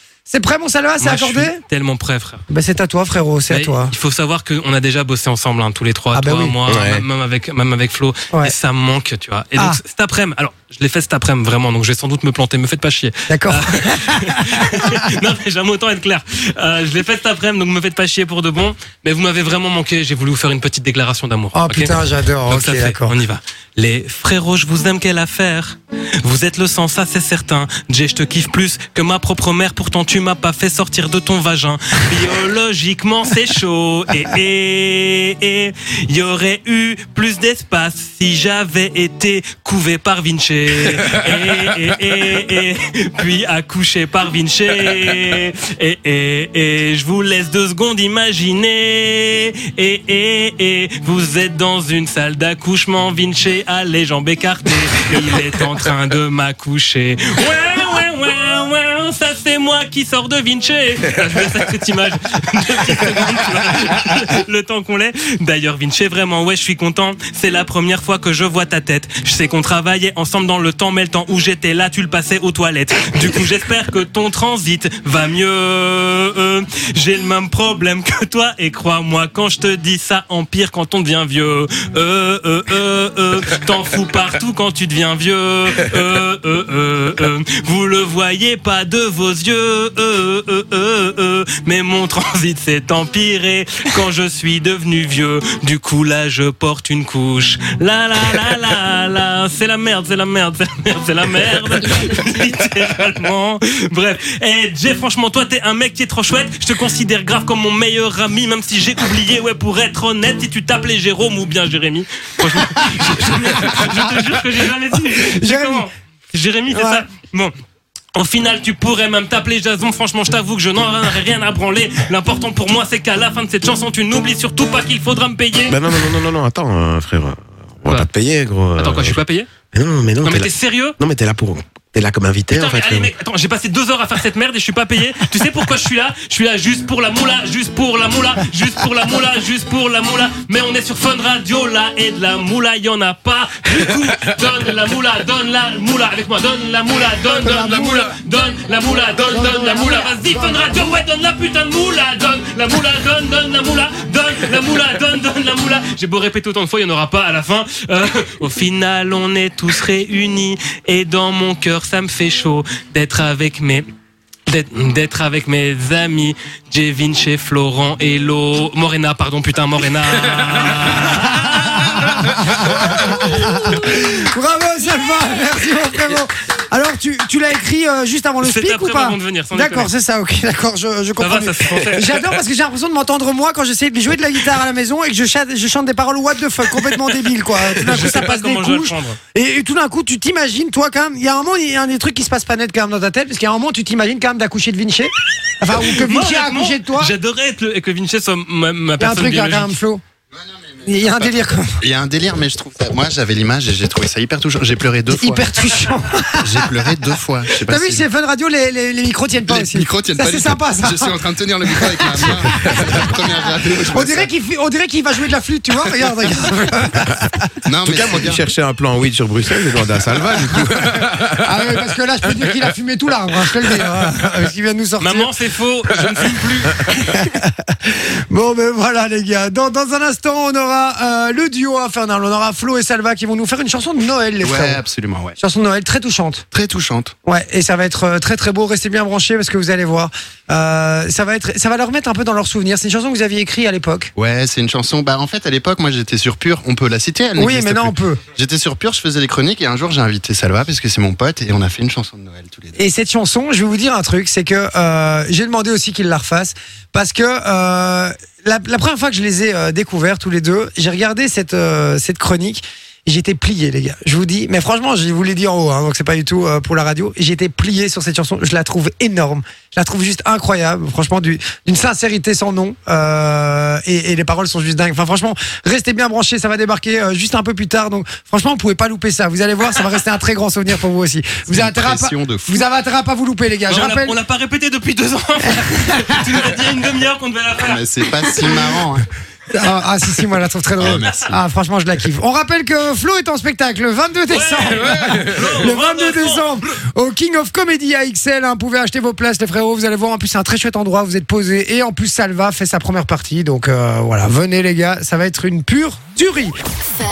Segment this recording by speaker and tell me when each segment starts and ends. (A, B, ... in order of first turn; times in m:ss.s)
0:00.3-0:01.6 A
0:01.0-0:02.4 B
0:02.5-0:03.9 A
0:03.5-1:57.5 B
0:06.1-0:06.6 A
0:06.7-0:07.0 C
0:13.3-0:15.0 A
0:21.6-0:23.2 A
1:52.8-1:54.4 A
1:55.0-1:55.8 A
1:56.7-1:57.0 A
1:58.2-2:06.0 B
2:05.7-2:09.2 C
2:08.8-2:09.5 B
2:09.7-2:13.1 C
2:10.2-2:11.0 B
2:12.5-2:43.8 B
2:27.3-2:28.1 A
2:29.3-2:30.6 A
2:44.5-2:52.9 B
2:52.2-3:17.1 A
2:58.4-2:59.9 B
3:01.2-3:02.2 B
3:07.7-3:09.2 B
3:15.8-3:19.8 B
3:19.0-3:20.0 A
3:20.3-3:25.5 D
3:20.8-3:21.8 A
3:25.1-3:27.0 A
3:26.4-3:28.0 D
3:27.6-3:31.2 A
3:29.4-3:34.3 D
3:31.7-3:33.1 A
3:33.9-3:37.5 A
3:37.7-3:38.4 D
3:37.8-3:42.6 C
3:40.5-3:45.3 A
3:45.0-3:47.0 B
3:46.9-3:54.8 A
3:54.4-3:55.4 D
3:55.4-3:56.4 A
3:56.5-3:57.1 D
3:57.2-4:04.1 A
4:04.2-4:12.8 D
4:07.4-4:08.2 A
4:12.8-4:44.2 A
4:41.5-4:42.6 D
4:43.7-4:48.7 B
4:45.7-4:46.4 A
4:47.6-4:49.1 D
4:49.5-5:06.6 A
4:50.8-4:51.4 D
4:54.3-4:56.5 B